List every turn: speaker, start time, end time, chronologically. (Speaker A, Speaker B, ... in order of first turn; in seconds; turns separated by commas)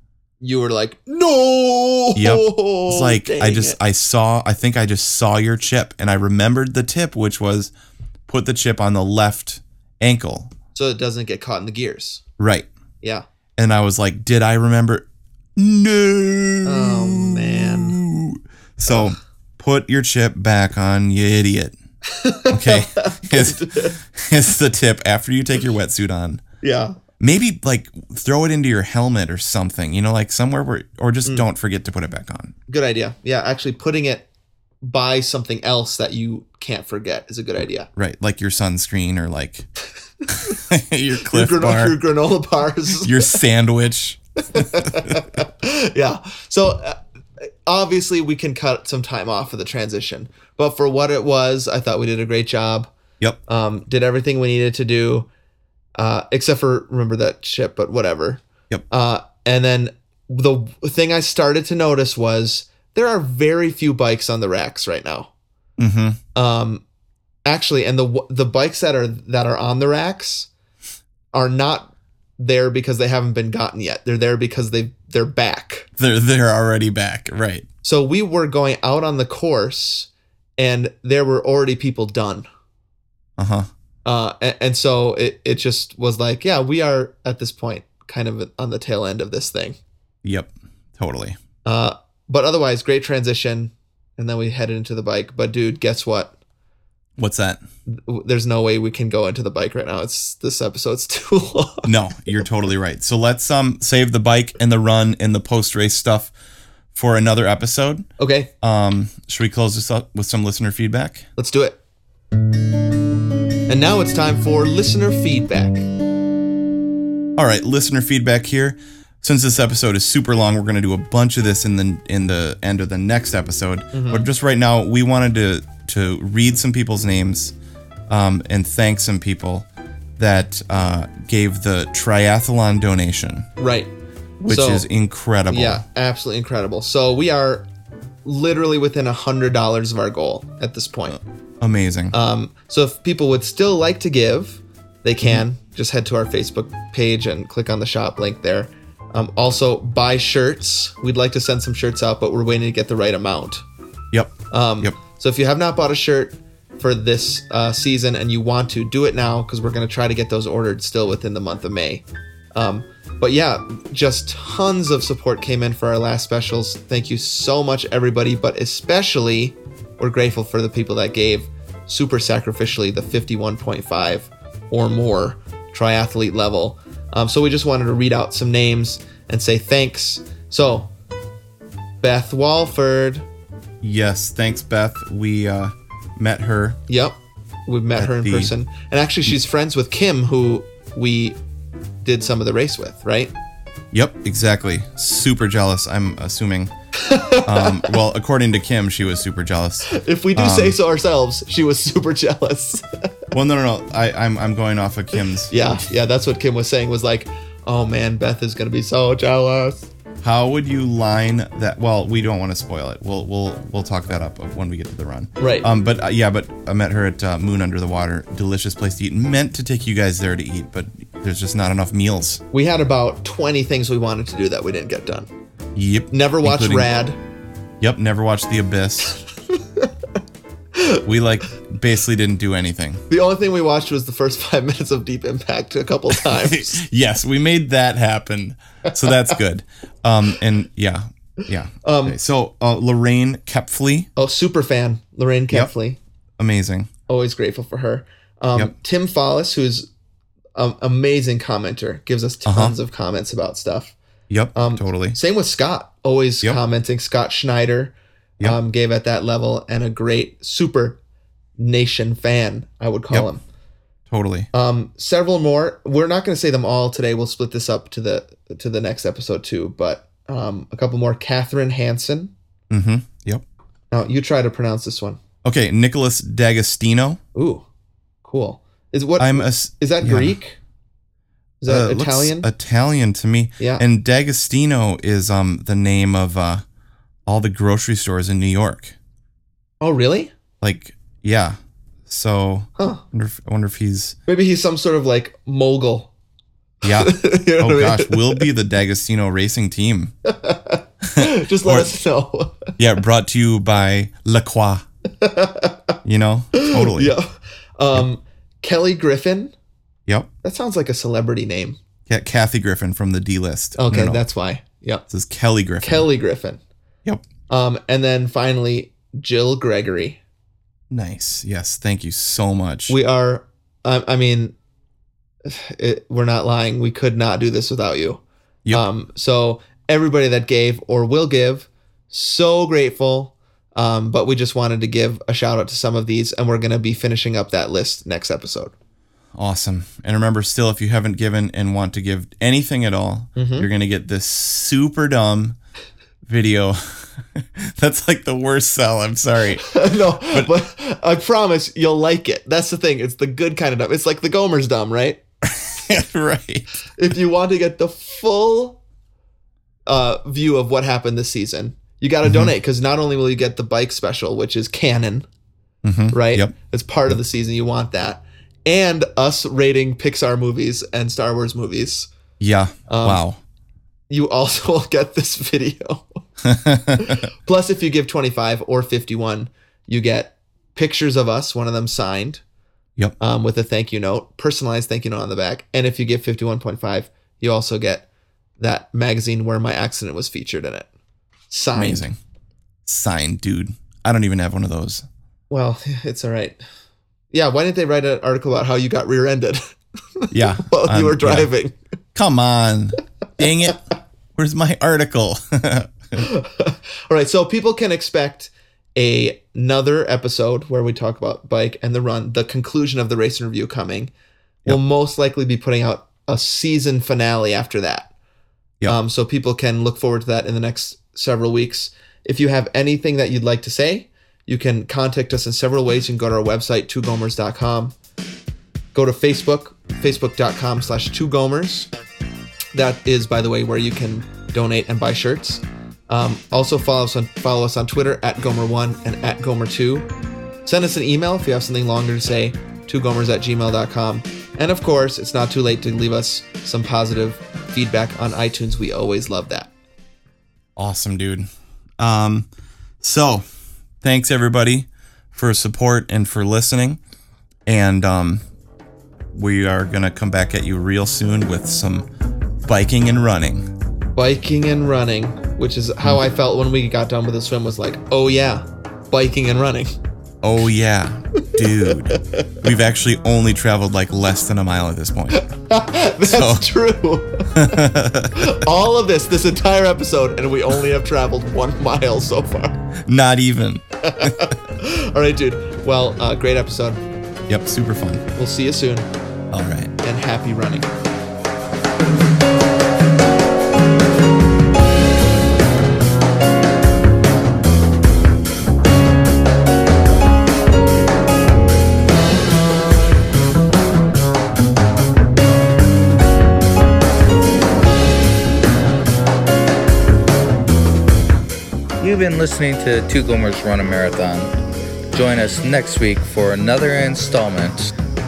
Speaker A: 0.4-3.8, Speaker B: 2.2-7.7, Speaker B: 8.3-10.5, Speaker A: 10.7-12.2, Speaker B: 12.4-12.7, Speaker B: 13.6-21.8, Speaker A: 16.6-18.0, Speaker A: 18.9-19.1, Speaker A: 22.1-24.0, Speaker B: 22.5-26.4, Speaker A: 26.6-27.0, Speaker B: 27.2-32.5, Speaker A: 32.7-34.3, Speaker A: 34.8-37.9, Speaker B: 38.0-39.7, Speaker A: 40.3-40.6, Speaker B: 40.3-42.0, Speaker A: 41.2-43.4, Speaker B: 43.0-45.2, Speaker A: 44.5-47.0, Speaker A: 47.7-52.9, Speaker A: 53.5-55.3, Speaker A: 56.0-65.3, Speaker B: 65.8-66.2, Speaker A: 66.3-66.8, Speaker A: 67.5-70.5, Speaker A: 71.3-75.9, Speaker B: 76.0-77.7, Speaker A: 77.8-82.5, Speaker B: 83.4-83.7, Speaker A: 84.0-89.8, Speaker B: 90.2-91.4, Speaker A: 91.7-96.3, Speaker B: 97.2-97.6, Speaker A: 97.9-101.9, Speaker B: 101.8-106.3, Speaker B: 106.9-108.0, Speaker A: 108.2-108.5, Speaker B: 108.6-111.3, Speaker A: 111.4-111.8, Speaker A: 113.7-115.9, Speaker B: 117.4-127.5, Speaker A: 123.9-124.3, Speaker B: 128.1-129.7, Speaker B: 130.2-133.5, Speaker A: 133.6-133.9, Speaker B: 134.4-135.8, Speaker A: 134.5-134.8, Speaker A: 135.5-137.7, Speaker A: 138.2-141.2, Speaker B: 141.6-142.2, Speaker A: 142.1-153.6, Speaker B: 154.1-154.9, Speaker A: 154.5-162.0, Speaker A: 162.6-180.9, Speaker A: 182.0-183.3, Speaker B: 183.8-186.8, Speaker A: 186.9-187.2, Speaker A: 187.7-191.4, Speaker B: 188.0-188.5, Speaker A: 192.0-193.3, Speaker B: 193.9-196.7, Speaker A: 196.9-197.9, Speaker B: 197.4-200.8, Speaker A: 199.9-202.8, Speaker B: 203.3-205.8, Speaker A: 205.5-209.9, Speaker B: 210.2-222.4, Speaker A: 215.4-215.7, Speaker A: 222.5-225.3, Speaker B: 225.8-226.9, Speaker A: 226.1-227.2, Speaker B: 227.8-229.2, Speaker A: 230.8-231.0, Speaker B: 231.0-233.0, Speaker A: 233.1-236.8, Speaker B: 236.1-244.1, Speaker A: 241.8-242.2, Speaker A: 244.2-246.0, Speaker B: 246.4-246.9, Speaker A: 247.1-249.9, Speaker A: 250.6-253.9, Speaker B: 252.4-252.8, Speaker B: 254.3-255.2, Speaker A: 254.6-261.0, Speaker A: 261.6-263.4, Speaker B: 264.1-264.5, Speaker A: 264.5-272.3, Speaker B: 272.7-273.4, Speaker A: 273.9-275.2, Speaker B: 275.4-277.2, Speaker A: 277.4-277.6, Speaker A: 278.2-280.6, Speaker B: 279.2-280.4, Speaker A: 281.6-282.5, Speaker B: 281.7-286.6, Speaker A: 283.6-283.8, Speaker B: 287.3-288.9, Speaker A: 289.8-290.3, Speaker B: 290.6-291.6, Speaker B: 292.1-294.2, Speaker A: 292.8-293.0, Speaker A: 294.3-296.1, Speaker B: 296.8-300.1, Speaker A: 296.9-298.5, Speaker A: 300.2-302.8, Speaker B: 301.0-301.9, Speaker B: 302.8-304.8, Speaker A: 305.2-306.0, Speaker B: 306.1-307.1, Speaker A: 306.5-309.5, Speaker A: 310.4-311.8, Speaker B: 312.1-314.2, Speaker A: 313.8-315.1, Speaker B: 315.1-316.1, Speaker A: 315.8-316.6, Speaker A: 317.5-320.2, Speaker B: 320.9-323.0, Speaker A: 322.9-324.5, Speaker A: 325.4-338.7, Speaker B: 339.4-345.6, Speaker A: 343.4-343.7, Speaker B: 346.2-350.5, Speaker A: 349.6-355.2, Speaker B: 355.4-356.7, Speaker A: 357.0-358.8, Speaker A: 359.9-365.3, Speaker B: 362.2-362.5, Speaker B: 365.8-366.5, Speaker A: 366.1-372.1, Speaker B: 372.4-373.4, Speaker A: 372.9-373.2, Speaker A: 374.1-376.0, Speaker B: 376.4-377.2, Speaker A: 377.0-382.4, Speaker A: 383.2-388.1, Speaker A: 388.6-390.9, Speaker A: 391.5-392.0, Speaker B: 391.7-392.2, Speaker B: 392.9-395.1, Speaker A: 395.5-396.6, Speaker A: 397.3-399.6, Speaker A: 400.2-401.8, Speaker B: 400.3-401.5, Speaker B: 402.1-403.8, Speaker B: 404.4-406.3, Speaker A: 406.2-414.1, Speaker A: 414.7-418.1, Speaker A: 418.9-427.9, Speaker A: 428.9-431.9, Speaker A: 432.7-440.1, Speaker A: 440.6-449.7, Speaker B: 450.8-451.5, Speaker B: 452.0-452.5, Speaker B: 453.0-453.5, Speaker B: 454.0-457.0, Speaker B: 457.7-458.4, Speaker B: 459.3-462.1, Speaker B: 462.6-463.7, Speaker A: 464.2-469.9, Speaker B: 470.4-475.5, Speaker A: 471.9-472.5, Speaker A: 475.3-482.8, Speaker B: 476.2-476.7, Speaker B: 477.5-478.6, Speaker B: 483.0-484.5, Speaker A: 484.0-487.0, Speaker B: 487.5-488.3, Speaker A: 488.4-489.1, Speaker B: 489.5-489.9, Speaker A: 490.0-490.9, Speaker C: 512.0-514.5, Speaker C: 515.1-517.9